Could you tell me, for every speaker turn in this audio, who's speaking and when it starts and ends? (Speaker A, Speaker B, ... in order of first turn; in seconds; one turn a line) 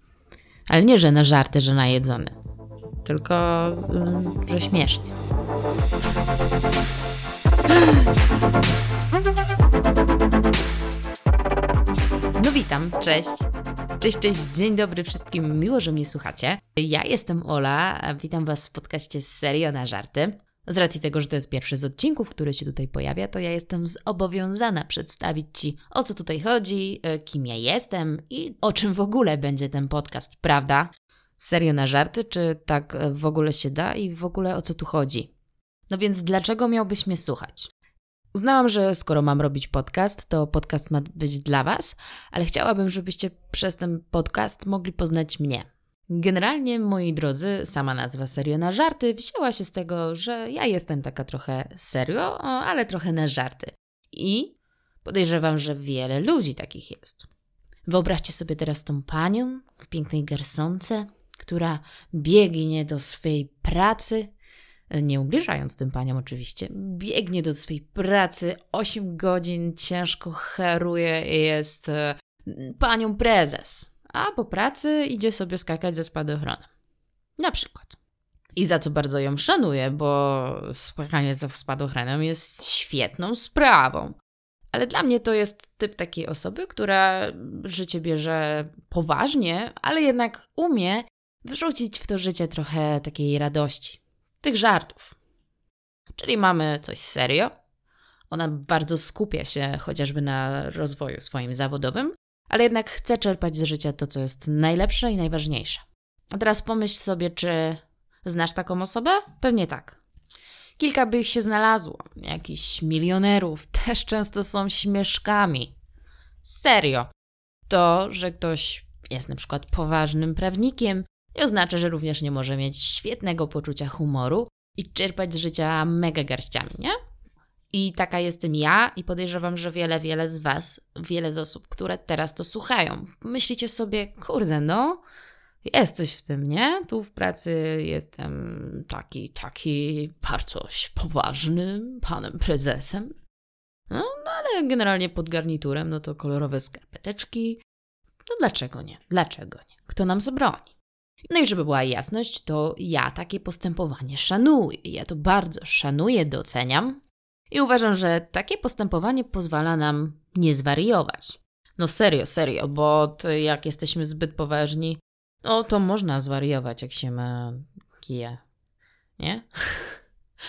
Speaker A: 0.7-2.4
Speaker A: 3.0-5.1
Speaker A: 12.4-13.5
Speaker A: 14.0-35.3
Speaker A: 35.9-37.7
Speaker A: 38.3-57.2
Speaker A: 57.9-64.3
Speaker A: 64.9-76.7
Speaker A: 77.4-78.0
Speaker A: 78.5-84.2
Speaker A: 84.7-95.2
Speaker A: 96.2-97.5
Speaker A: 98.3-110.0
Speaker A: 110.8-115.7
Speaker A: 116.4-117.1
Speaker A: 117.7-127.0
Speaker A: 127.7-135.0
Speaker A: 135.6-143.1
Speaker A: 143.9-147.6
Speaker A: 148.3-150.7
Speaker A: 151.3-157.0
Speaker A: 157.5-168.4
Speaker A: 169.2-170.0